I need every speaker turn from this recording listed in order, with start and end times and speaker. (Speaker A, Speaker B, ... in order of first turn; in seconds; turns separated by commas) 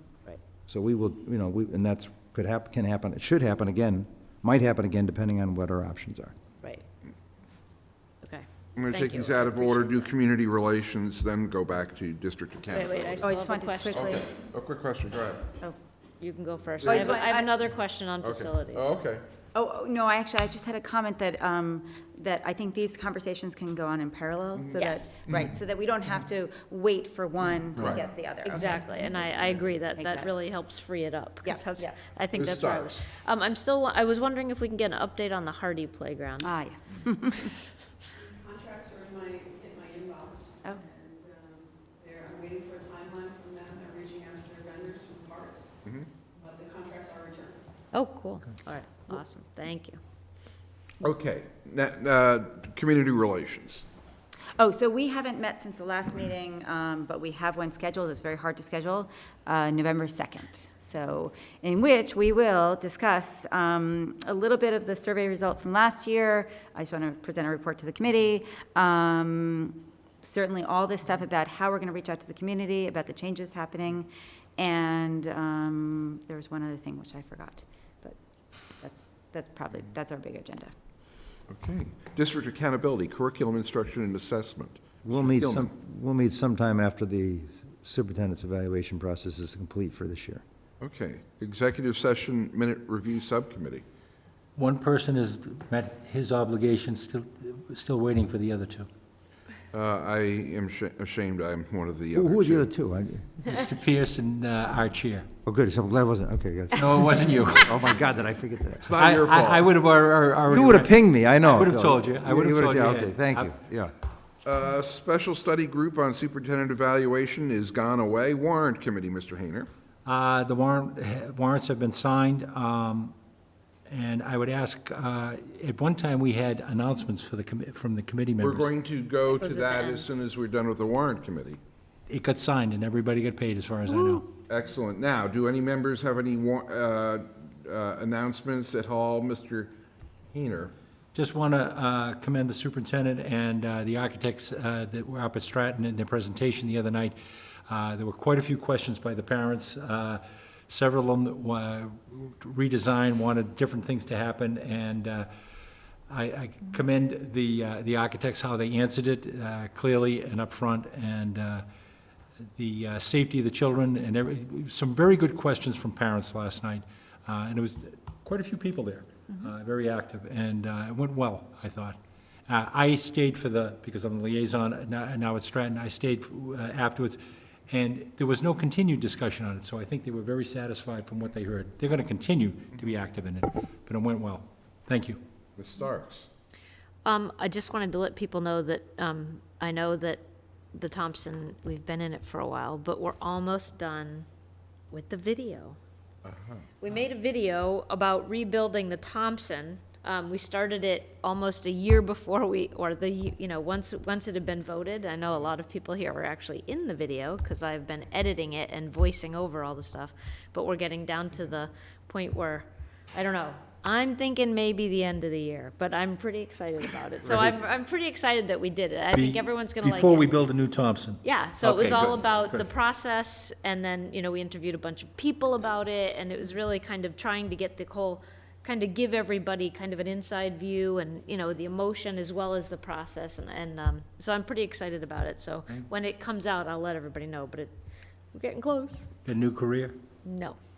Speaker A: 0.7-6.3, Speaker B: 8.2-10.1, Speaker C: 8.8-13.3, Speaker B: 12.7-14.2, Speaker D: 13.2-14.3, Speaker C: 13.9-15.5, Speaker B: 16.2-18.9, Speaker C: 16.8-17.2, Speaker D: 16.8-17.6, Speaker C: 18.2-19.2, Speaker D: 19.5-30.3, Speaker C: 24.6-25.5, Speaker B: 24.8-25.1, Speaker C: 27.8-28.1, Speaker B: 28.4-36.5, Speaker D: 31.4-31.9, Speaker C: 32.3-32.9, Speaker D: 36.4-37.5, Speaker E: 38.6-40.5, Speaker E: 41.0-45.7, Speaker E: 46.5-47.5, Speaker B: 47.9-50.0, Speaker C: 51.0-53.8, Speaker D: 54.6-78.2, Speaker D: 78.8-80.7, Speaker C: 81.5-85.7, Speaker A: 85.0-90.4, Speaker C: 90.8-93.8, Speaker F: 94.6-98.9, Speaker C: 99.7-102.7, Speaker A: 102.1-103.4, Speaker F: 103.4-105.3, Speaker A: 105.4-108.9, Speaker F: 106.8-107.9, Speaker C: 108.8-109.7, Speaker F: 108.9-113.5, Speaker A: 110.5-113.9, Speaker C: 114.4-119.7, Speaker F: 120.0-123.1, Speaker F: 123.9-128.7, Speaker C: 128.4-131.6, Speaker B: 129.3-130.1, Speaker F: 132.1-134.3, Speaker C: 134.4-139.7, Speaker C: 140.3-140.7, Speaker F: 141.1-147.1, Speaker F: 147.7-155.3, Speaker F: 156.1-161.6, Speaker F: 162.6-171.9, Speaker F: 172.5-177.2, Speaker F: 177.7-185.2, Speaker C: 185.6-186.3, Speaker B: 187.0-190.2, Speaker B: 190.7-194.2, Speaker B: 194.9-195.8, Speaker C: 196.2-196.7, Speaker B: 196.8-220.3, Speaker F: 217.3-217.6, Speaker F: 219.1-222.6, Speaker B: 221.2-237.7, Speaker B: 238.3-239.1, Speaker F: 239.2-239.9, Speaker B: 240.2-240.6